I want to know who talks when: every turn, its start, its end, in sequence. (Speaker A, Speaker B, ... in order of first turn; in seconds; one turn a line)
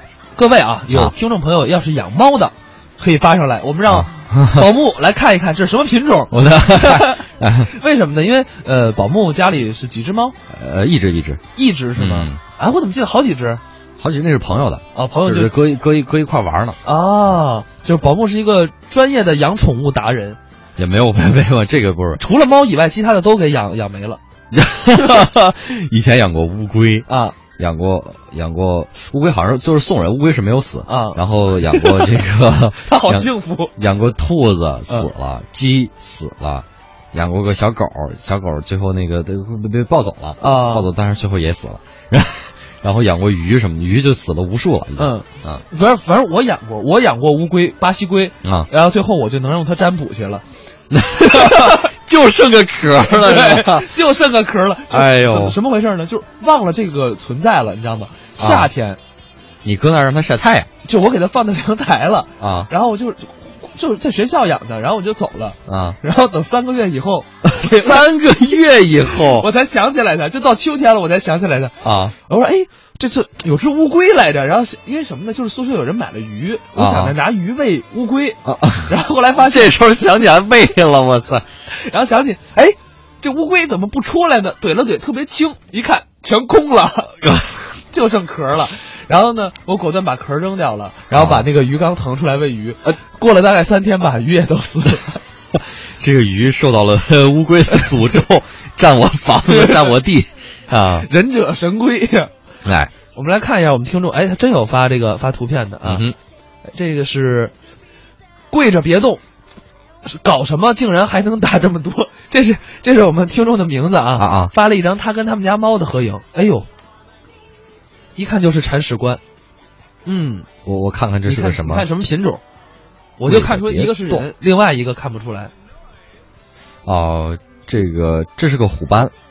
Speaker A: 0.4-10.4
Speaker B: 0.9-1.1
Speaker B: 3.9-4.7
Speaker B: 6.3-7.7
Speaker B: 10.5-11.4
Speaker A: 11.6-13.6
Speaker B: 11.9-12.4
Speaker B: 14.0-16.8
Speaker A: 14.9-15.6
Speaker A: 16.8-20.4
Speaker B: 20.8-22.2
Speaker A: 22.2-24.2
Speaker B: 24.5-27.1
Speaker A: 27.1-27.4
Speaker B: 27.6-45.6
Speaker A: 30.9-32.2
Speaker A: 32.9-33.7
Speaker A: 40.4-40.9
Speaker A: 45.0-50.4
Speaker B: 48.4-48.7
Speaker B: 50.9-53.9
Speaker A: 51.4-51.8
Speaker A: 53.1-59.0
Speaker B: 54.9-55.6
Speaker B: 58.4-58.7
Speaker B: 59.6-60.7
Speaker A: 60.8-68.0
Speaker B: 62.4-62.7
Speaker B: 65.7-66.0
Speaker B: 67.4-69.5
Speaker A: 69.3-79.8
Speaker B: 71.8-72.2
Speaker B: 76.8-77.2
Speaker B: 78.5-81.5
Speaker A: 81.7-87.2
Speaker B: 87.2-87.7
Speaker A: 87.9-95.2
Speaker B: 91.1-91.5
Speaker B: 95.5-101.1
Speaker A: 99.5-99.9
Speaker A: 101.0-102.3
Speaker B: 102.7-102.9
Speaker A: 103.1-106.0
Speaker B: 105.8-106.2
Speaker A: 106.7-107.5
Speaker A: 108.5-109.2
Speaker A: 110.0-116.7
Speaker B: 114.2-114.5
Speaker A: 118.2-119.2
Speaker A: 120.1-120.5
Speaker B: 120.7-121.9
Speaker A: 121.3-122.4
Speaker A: 123.2-125.5
Speaker B: 123.3-124.3
Speaker B: 126.9-129.1